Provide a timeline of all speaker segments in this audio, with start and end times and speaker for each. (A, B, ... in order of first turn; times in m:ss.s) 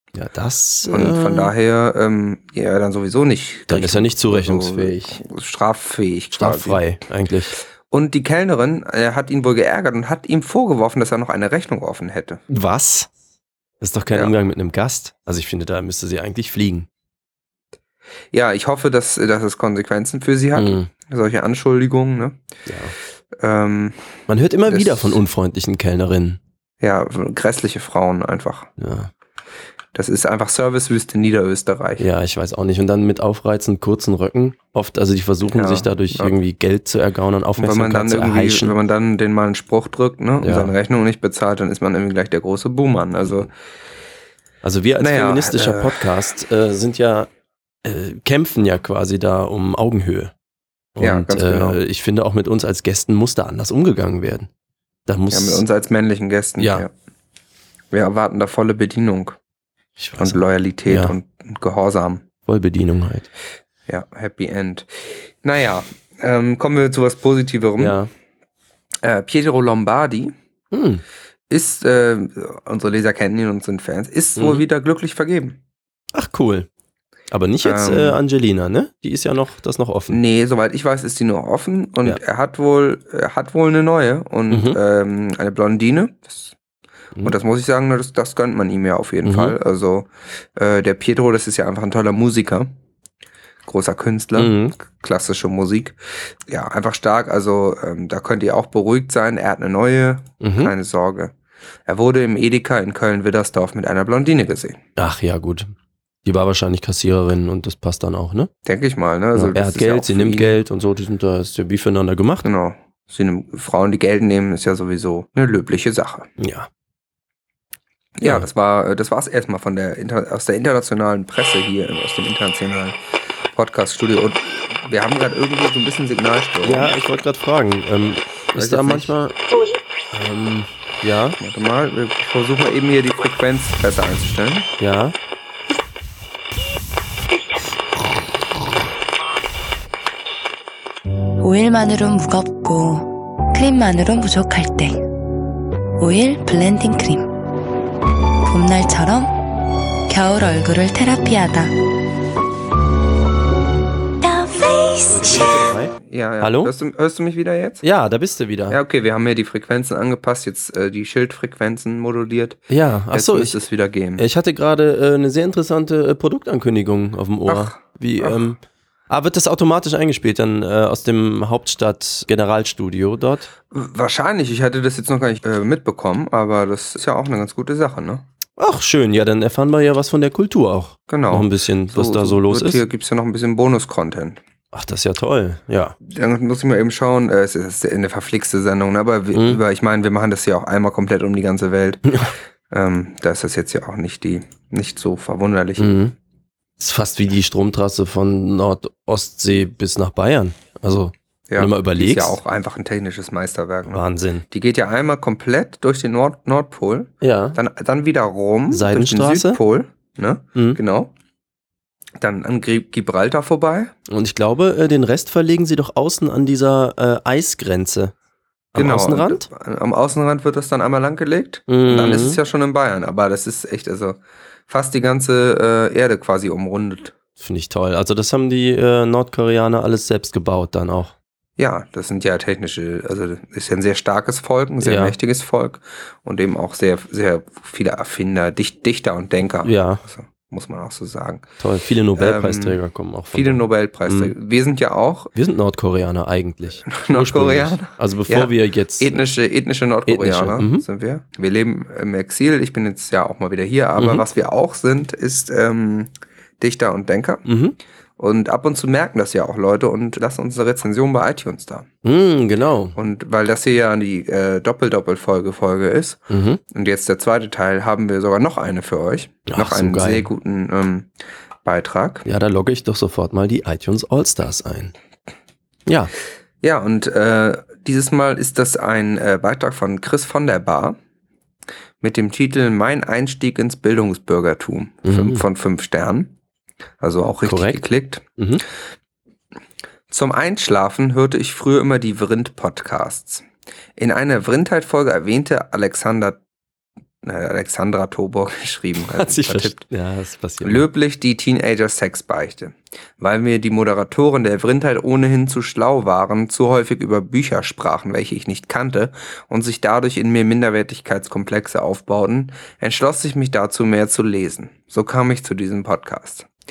0:00.1-0:01.5 A
0:00.9-0:06.8 B
0:03.7-0:05.2 A
0:06.3-0:07.5 A
0:07.9-0:12.4 B
0:12.5-0:13.1 A
0:13.8-0:16.9 A
0:18.3-0:22.4 B
0:20.6-0:20.9 A
0:22.6-0:22.9 A
0:23.3-0:24.0 B
0:24.3-0:26.4 A
0:24.7-0:25.2 B
0:26.8-0:28.7 B
0:28.8-0:29.1 A
0:29.9-0:32.1 B
0:32.0-0:38.8 A
0:35.5-0:36.3 B
0:37.6-0:43.5 B
0:40.4-0:40.7 A
0:44.6-0:47.3 A
0:45.0-0:46.1 B
0:47.8-0:50.3 A
0:51.0-0:54.5 A
0:51.0-0:51.8 B
0:55.1-0:55.6 A
0:55.3-0:56.9 B
0:56.6-0:56.9 A
0:57.9-0:59.4 B
1:00.0-1:01.1 A
1:00.2-1:02.2 B
1:02.4-1:03.3 A
1:03.9-1:08.0 B
1:07.8-1:08.1 A
1:09.0-1:10.3 B
1:10.7-1:11.0 A
1:11.5-1:15.6 B
1:14.4-1:14.6 A
1:16.1-1:16.7 A
1:17.3-1:20.2 A
1:17.6-1:18.2 B
1:20.1-1:26.5 B
1:24.5-1:24.8 A
1:27.2-1:32.7 B
1:29.2-1:29.5 A
1:33.6-1:36.0 B
1:34.4-1:34.7 A
1:36.5-1:41.3 B
1:40.4-1:40.7 A
1:41.8-1:44.8 B
1:45.0-1:45.7 A
1:46.2-1:48.5 A
1:48.6-1:50.6 B
1:49.3-1:52.5 A
1:52.4-1:56.3 B
1:56.4-1:56.7 A
1:58.2-2:03.0 B
2:03.5-2:06.9 B
2:06.6-2:09.4 A
2:08.5-2:09.1 B
2:10.1-2:11.4 A
2:11.4-2:14.7 B
2:14.8-2:15.1 A
2:21.4-2:25.0 C
2:26.0-2:27.3 C
2:28.4-2:29.3 C
2:30.1-2:31.7 C
2:34.2-2:35.5 C
2:35.1-2:36.7 A
2:36.0-2:37.8 B
2:37.8-2:38.8 A
2:38.7-2:44.2 B
2:42.7-2:43.6 A
2:44.2-2:48.6 A
2:47.5-2:48.5 B
2:49.1-2:53.5 A
2:53.7-2:58.2 B
2:58.6-3:02.8 A
3:01.1-3:04.4 B
3:04.7-3:06.0 A
3:06.0-3:12.1 B
3:09.3-3:09.6 A
3:12.7-3:16.0 B
3:15.8-3:16.1 A
3:16.8-3:22.4 A
3:21.5-3:31.1 B
3:23.9-3:24.4 A
3:27.2-3:27.6 A
3:28.7-3:29.6 A
3:32.2-3:33.9 B
3:34.1-3:38.1 A
3:38.7-3:39.5 A
3:38.8-3:47.1 B
3:41.7-3:42.4 A
3:47.4-3:51.1 A
3:51.6-4:01.5 B
3:54.8-3:55.1 A
3:59.6-4:00.0 A
4:01.6-4:04.3 A
4:02.2-4:02.8 B
4:03.3-4:05.3 B
4:05.3-4:09.2 A
4:06.8-4:17.4 B
4:10.1-4:10.8 A
4:14.0-4:14.2 A
4:17.4-4:17.8 A
4:18.2-4:21.9 B
4:22.0-4:23.0 A
4:23.0-4:31.1 B
4:26.3-4:26.6 A
4:29.5-4:30.3 A
4:31.6-4:32.2 B
4:32.2-4:34.9 A
4:35.9-4:36.1 A
4:36.6-4:41.0 B
4:42.0-4:46.4 B
4:45.0-4:45.4 A
4:47.0-4:48.2 B
4:47.4-4:47.8 A
4:48.4-4:48.6 A
4:50.1-4:53.4 B
4:54.0-4:56.4 B
4:57.2-4:59.8 B
4:59.1-5:00.9 A
5:00.6-5:16.5 B